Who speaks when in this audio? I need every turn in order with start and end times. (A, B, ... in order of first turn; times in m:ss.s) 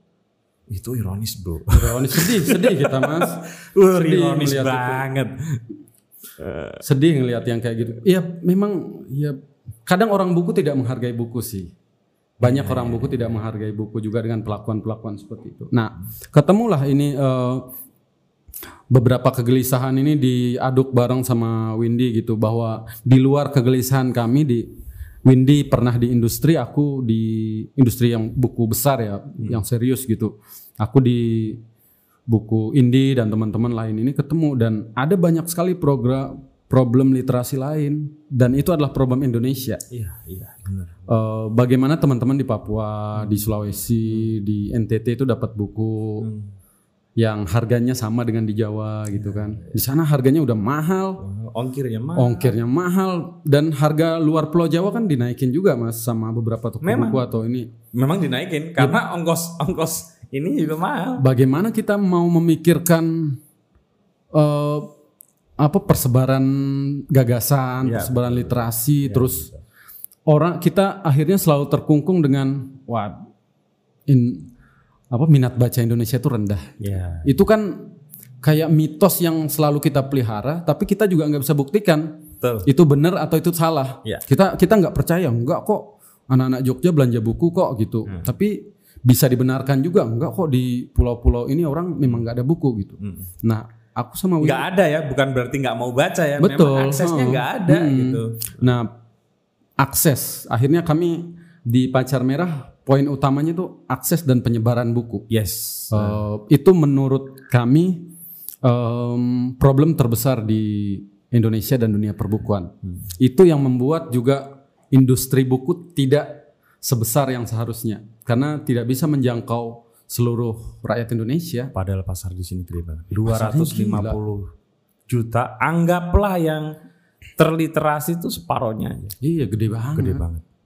0:00.7-0:05.6 A
0:01.7-0:05.1 B
0:06.4-0:06.8 A
0:06.8-0:11.7 B
0:12.4-0:13.4 A
0:12.4-0:17.7 B
0:18.9-0:24.7 B
0:25.3-0:31.6 B
0:32.3-0:39.8 B
0:39.9-0:41.0 A
0:41.1-0:46.2 B
0:43.2-0:43.5 A
0:46.2-0:46.5 A
0:47.2-0:51.2 B
0:49.2-0:49.8 A
0:51.2-0:52.5 A
0:52.2-0:57.7 B
0:56.8-0:57.2 A
0:57.9-1:01.2 A
1:01.2-1:03.4 B
1:04.3-1:04.9 B
1:05.6-1:09.5 B
1:07.8-1:09.6 A
1:10.3-1:13.2 B
1:14.1-1:14.5 B
1:15.1-1:34.6 B
1:16.8-1:17.3 A
1:22.4-1:22.7 A
1:33.0-1:33.3 A
1:34.4-1:38.5 A
1:36.4-1:38.9 B
1:39.8-1:45.2 B
1:45.3-1:46.2 A
1:45.9-1:48.1 B
1:48.6-2:01.7 B
2:01.7-2:04.5 A
2:03.3-2:04.2 B
2:05.1-2:06.7 A
2:07.4-2:09.1 A
2:09.2-2:10.2 B
2:10.0-2:10.4 A